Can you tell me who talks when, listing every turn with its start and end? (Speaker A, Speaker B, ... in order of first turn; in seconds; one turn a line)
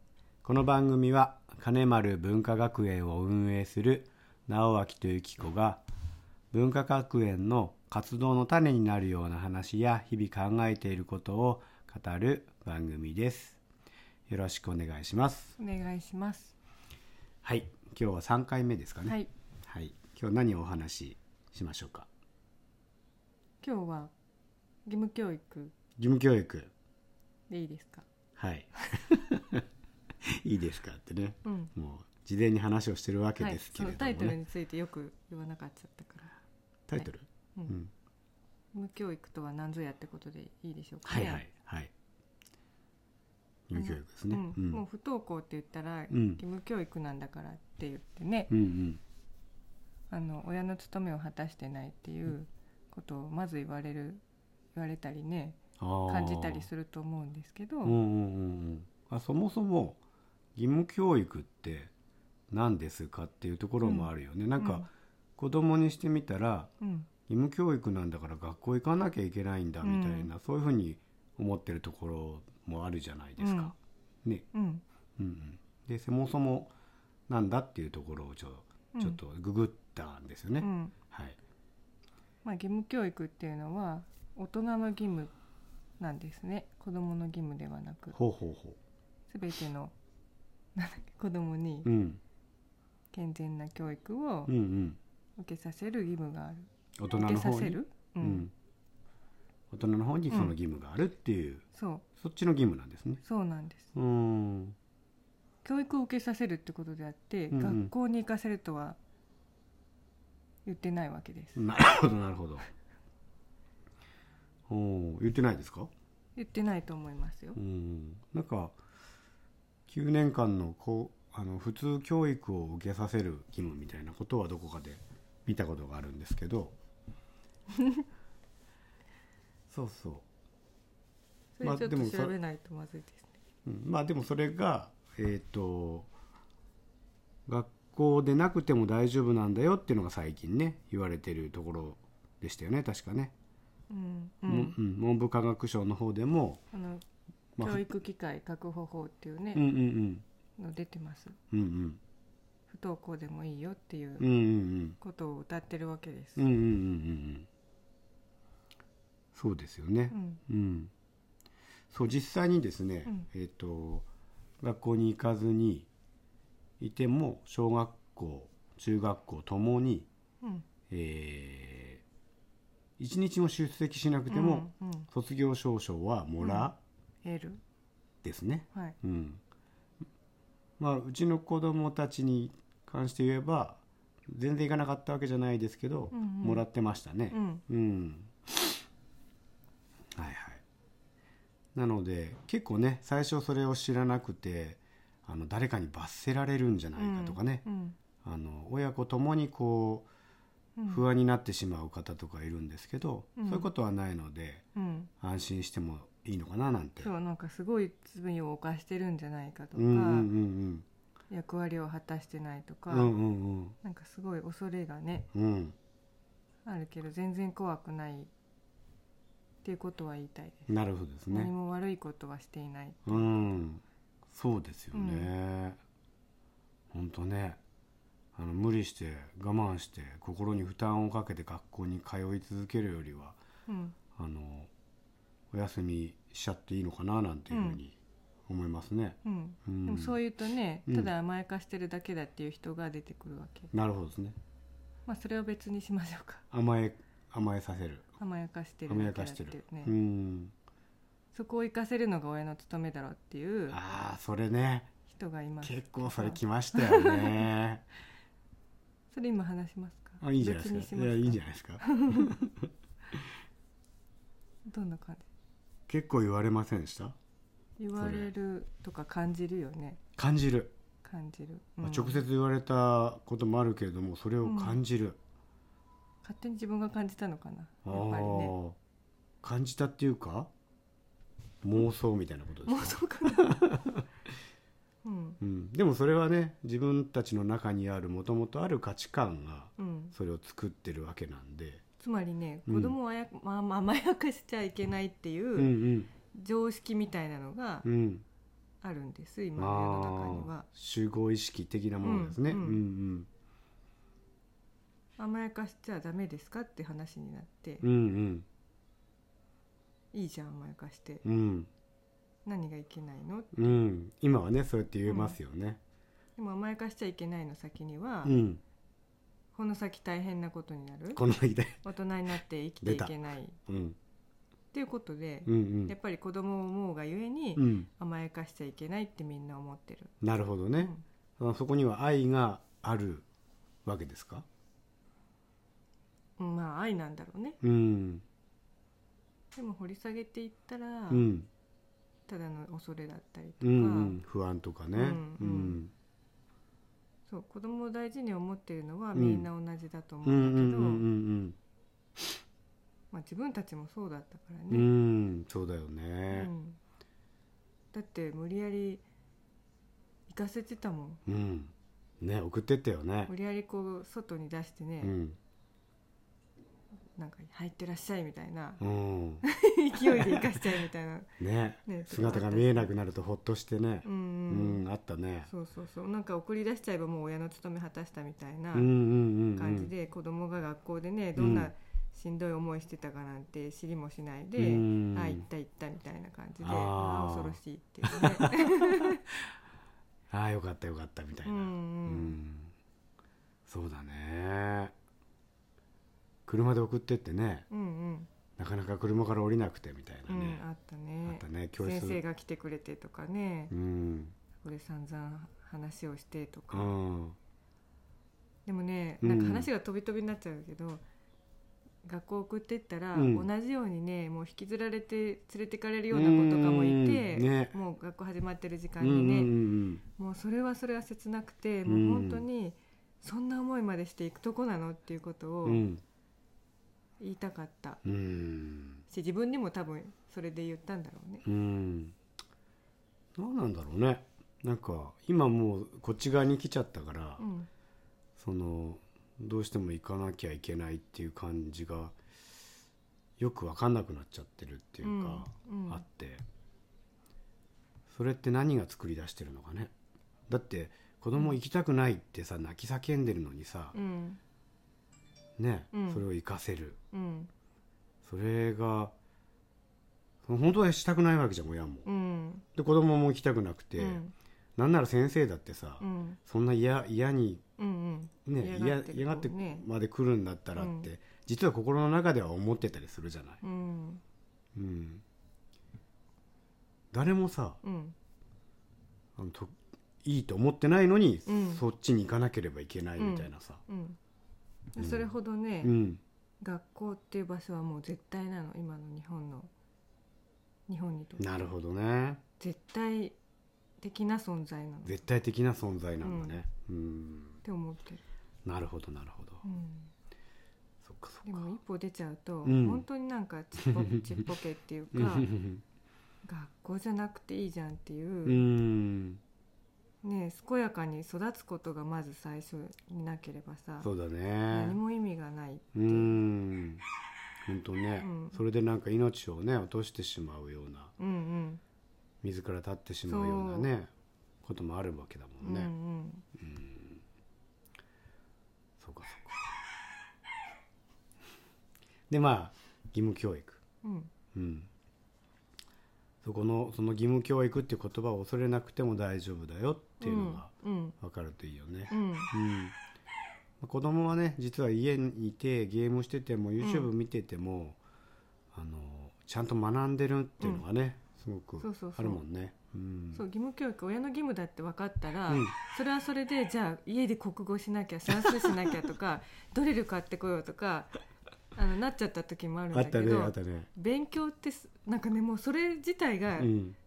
Speaker A: 0.4-5.8
Speaker A: 6.5-13.6
Speaker A: 14.3-15.6
Speaker B: 15.6-16.6
Speaker A: 17.4-22.1
Speaker B: 19.1-19.3
Speaker B: 23.6-24.1
Speaker B: 24.9-25.7
Speaker A: 26.0-26.7
Speaker B: 27.5-28.1
Speaker A: 28.4-29.6
Speaker A: 30.3-34.4
Speaker B: 31.4-31.7
Speaker B: 33.4-36.4
Speaker A: 36.9-37.9
Speaker B: 37.0-37.8
Speaker B: 38.7-41.4
Speaker A: 41.0-41.9
Speaker A: 43.7-44.8
Speaker B: 43.8-48.5
Speaker A: 46.1-46.4
Speaker A: 48.5-49.0
Speaker B: 50.1-54.2
Speaker B: 54.7-58.0
Speaker A: 55.8-56.7
Speaker A: 57.8-60.0
Speaker A: 60.6-61.9
Speaker A: 62.5-66.7
Speaker B: 63.8-64.9
Speaker B: 66.8-67.1
Speaker A: 67.3-74.5
Speaker B: 69.8-70.3
Speaker B: 73.4-73.7
Speaker B: 74.5-74.8
Speaker A: 75.2-76.7
Speaker A: 77.3-81.4
Speaker B: 78.9-79.2
Speaker B: 80.6-80.9
Speaker B: 82.4-85.3
Speaker B: 86.0-88.2
Speaker A: 88.1-88.8
Speaker B: 89.3-89.9
Speaker B: 90.8-91.9
Speaker A: 91.8-92.2
Speaker B: 93.1-94.5
Speaker A: 94.5-95.0
Speaker B: 95.4-98.5
Speaker A: 97.0-98.5
Speaker A: 99.7-101.7
Speaker B: 100.3-100.5
Speaker B: 101.7-102.0
Speaker A: 102.2-103.2
Speaker B: 103.2-103.9
Speaker A: 104.0-104.8
Speaker B: 105.6-109.0
Speaker A: 107.5-107.9
Speaker B: 110.7-111.6
Speaker A: 111.6-112.7
Speaker A: 114.7-115.9
Speaker B: 116.4-117.6
Speaker A: 117.5-118.8
Speaker A: 119.9-126.8
Speaker B: 127.8-128.0
Speaker A: 129.7-130.2
Speaker B: 131.6-133.4
Speaker A: 131.6-132.3
Speaker A: 133.7-136.1
Speaker A: 137.5-143.3
Speaker B: 143.9-144.8
Speaker A: 144.5-146.6
Speaker B: 146.7-147.0
Speaker A: 147.6-147.9
Speaker B: 147.6-149.7
Speaker A: 149.5-150.2
Speaker B: 150.6-151.4
Speaker A: 151.5-152.0
Speaker B: 152.7-154.3
Speaker A: 154.2-155.0
Speaker B: 155.0-156.5
Speaker A: 156.4-157.5
Speaker A: 159.3-160.9
Speaker B: 160.1-160.4
Speaker A: 161.9-164.1
Speaker A: 164.6-165.9
Speaker A: 166.8-170.1
Speaker A: 170.9-172.0
Speaker A: 173.0-176.8
Speaker B: 174.3-175.1
Speaker B: 176.4-176.7
Speaker B: 177.2-177.6
Speaker A: 178.2-179.4
Speaker A: 180.8-188.7
Speaker B: 186.1-186.6
Speaker B: 187.3-187.6
Speaker A: 190.2-190.6
Speaker A: 191.8-197.7
Speaker B: 197.0-198.0
Speaker A: 198.2-200.1
Speaker B: 200.8-201.0
Speaker A: 200.9-204.6
Speaker B: 203.4-203.7
Speaker B: 204.8-205.1
Speaker A: 205.2-207.1
Speaker B: 207.0-210.3
Speaker A: 209.8-210.9
Speaker B: 211.3-213.1
Speaker A: 212.9-213.8
Speaker B: 213.8-215.3
Speaker A: 215.3-215.8
Speaker B: 216.7-218.3
Speaker B: 219.6-220.7
Speaker A: 220.7-221.5
Speaker B: 221.3-223.3
Speaker A: 223.1-225.8
Speaker B: 224.9-225.3
Speaker A: 226.9-227.6
Speaker A: 228.4-233.4
Speaker B: 233.7-233.9
Speaker A: 234.2-234.7
Speaker A: 235.5-238.0
Speaker B: 237.5-237.8
Speaker A: 238.5-240.2
Speaker B: 239.2-243.7
Speaker A: 240.9-241.1
Speaker A: 243.7-244.4
Speaker B: 245.1-246.4
Speaker A: 246.5-248.1
Speaker B: 248.2-249.9
Speaker A: 248.9-250.5
Speaker B: 251.3-253.8
Speaker A: 253.7-254.9
Speaker B: 255.1-257.5
Speaker A: 255.6-257.8
Speaker B: 259.1-262.3
Speaker A: 260.2-262.7
Speaker B: 264.6-265.3
Speaker A: 265.9-267.2
Speaker B: 267.8-270.0
Speaker A: 267.9-268.3
Speaker A: 270.2-270.7
Speaker B: 271.0-272.2
Speaker A: 271.8-275.2
Speaker B: 274.4-274.8
Speaker B: 276.2-278.6
Speaker A: 277.8-278.8
Speaker A: 279.4-280.5
Speaker A: 281.6-284.1
Speaker B: 282.7-283.6
Speaker B: 285.0-285.4
Speaker A: 285.4-291.8
Speaker B: 289.8-290.1
Speaker B: 292.0-295.8
Speaker A: 292.7-293.0
Speaker A: 295.6-296.1
Speaker B: 296.3-297.9
Speaker A: 297.8-298.2
Speaker B: 298.8-300.7
Speaker A: 299.6-303.3
Speaker B: 302.0-302.8
Speaker B: 305.2-307.9
Speaker A: 307.8-308.5
Speaker B: 310.1-311.2
Speaker A: 311.2-311.7
Speaker B: 312.4-313.8
Speaker A: 313.5-315.8
Speaker B: 315.1-315.4
Speaker B: 316.4-318.4
Speaker A: 318.2-318.6
Speaker B: 319.5-321.2
Speaker A: 321.1-321.9
Speaker B: 321.8-323.6
Speaker A: 322.8-323.1
Speaker A: 323.7-324.0
Speaker B: 324.7-330.1
Speaker A: 325.5-325.9
Speaker A: 327.6-327.9
Speaker A: 330.2-333.3
Speaker B: 330.8-331.0
Speaker A: 333.9-334.5
Speaker B: 336.4-337.6
Speaker A: 337.6-338.2
Speaker B: 339.5-341.3
Speaker A: 341.1-341.5
Speaker B: 342.3-344.2
Speaker A: 343.6-345.9
Speaker B: 344.9-345.8
Speaker B: 347.3-351.1
Speaker A: 349.1-349.5
Speaker A: 350.2-351.6
Speaker B: 353.1-354.9
Speaker A: 354.7-356.5
Speaker B: 356.3-356.8
Speaker B: 357.9-359.0
Speaker B: 360.3-361.2
Speaker A: 361.3-363.3
Speaker B: 363.3-365.1
Speaker A: 365.0-365.4
Speaker B: 367.1-368.8
Speaker A: 368.8-369.4
Speaker B: 369.4-371.3
Speaker A: 370.0-370.5
Speaker A: 371.4-375.5
Speaker B: 371.9-372.9
Speaker B: 374.0-374.8
Speaker B: 375.5-378.9
Speaker A: 378.7-379.9
Speaker B: 379.6-389.2
Speaker A: 381.4-381.7
Speaker A: 384.6-385.5
Speaker A: 386.6-389.2
Speaker A: 390.3-392.7
Speaker B: 391.4-392.4
Speaker A: 393.7-394.9
Speaker A: 396.5-397.7
Speaker B: 397.7-398.3
Speaker A: 398.6-400.6
Speaker B: 400.3-403.7
Speaker A: 401.2-402.2
Speaker A: 403.7-404.4
Speaker B: 404.6-406.9
Speaker A: 406.7-407.4
Speaker B: 408.7-411.0
Speaker A: 409.2-409.7
Speaker B: 412.0-425.9
Speaker A: 413.1-413.5
Speaker A: 416.1-417.8
Speaker A: 419.0-420.0
Speaker A: 421.9-422.5
Speaker A: 425.6-426.0
Speaker B: 427.2-428.0
Speaker A: 428.0-429.0
Speaker B: 429.1-431.4
Speaker A: 431.4-432.2
Speaker A: 433.4-437.4
Speaker B: 437.4-437.7
Speaker A: 438.4-442.2
Speaker A: 443.4-446.4
Speaker B: 445.0-446.0
Speaker A: 448.1-449.9
Speaker A: 450.5-454.0
Speaker B: 453.9-454.4
Speaker A: 455.6-457.0
Speaker B: 455.9-456.2
Speaker B: 457.1-457.5
Speaker A: 458.2-459.1
Speaker A: 460.4-462.1
Speaker B: 462.1-462.6
Speaker A: 462.8-464.2
Speaker B: 464.0-464.3
Speaker A: 464.8-467.6
Speaker B: 466.0-466.4
Speaker B: 467.8-469.9
Speaker A: 468.5-473.6
Speaker B: 470.8-471.1
Speaker B: 473.6-474.2
Speaker A: 474.8-475.2
Speaker A: 477.1-477.8
Speaker B: 477.8-478.1
Speaker A: 479.4-483.8
Speaker B: 481.5-481.8
Speaker B: 483.2-484.2
Speaker B: 484.9-485.9
Speaker A: 485.0-486.2
Speaker B: 486.6-489.7
Speaker B: 490.9-491.5
Speaker A: 491.4-492.4
Speaker B: 492.6-493.4
Speaker B: 494.0-495.2
Speaker A: 495.1-497.6
Speaker B: 496.2-496.6
Speaker B: 497.6-498.2
Speaker A: 498.6-499.6
Speaker B: 499.6-500.1
Speaker A: 501.0-501.7
Speaker B: 501.4-505.5
Speaker A: 502.6-503.1
Speaker A: 503.8-504.4
Speaker A: 505.1-505.8
Speaker B: 506.4-508.7
Speaker A: 508.4-509.4
Speaker B: 510.2-514.1
Speaker A: 514.0-515.0
Speaker B: 514.7-516.4
Speaker A: 515.9-517.0
Speaker A: 517.7-521.1
Speaker B: 518.2-518.6
Speaker B: 521.2-521.8
Speaker A: 522.4-524.1
Speaker B: 523.3-523.9
Speaker A: 524.6-525.9
Speaker B: 525.6-526.5
Speaker A: 526.6-527.2
Speaker A: 529.0-529.7
Speaker A: 532.3-533.8
Speaker B: 534.0-534.3
Speaker A: 534.5-534.9
Speaker A: 536.4-543.0
Speaker B: 540.2-541.1
Speaker B: 542.1-542.5
Speaker A: 543.8-548.0
Speaker B: 546.8-547.1
Speaker A: 548.7-553.4
Speaker B: 551.8-552.4
Speaker B: 553.3-561.1
Speaker A: 555.5-555.7
Speaker B: 561.7-566.7
Speaker A: 562.9-563.9
Speaker A: 566.6-567.0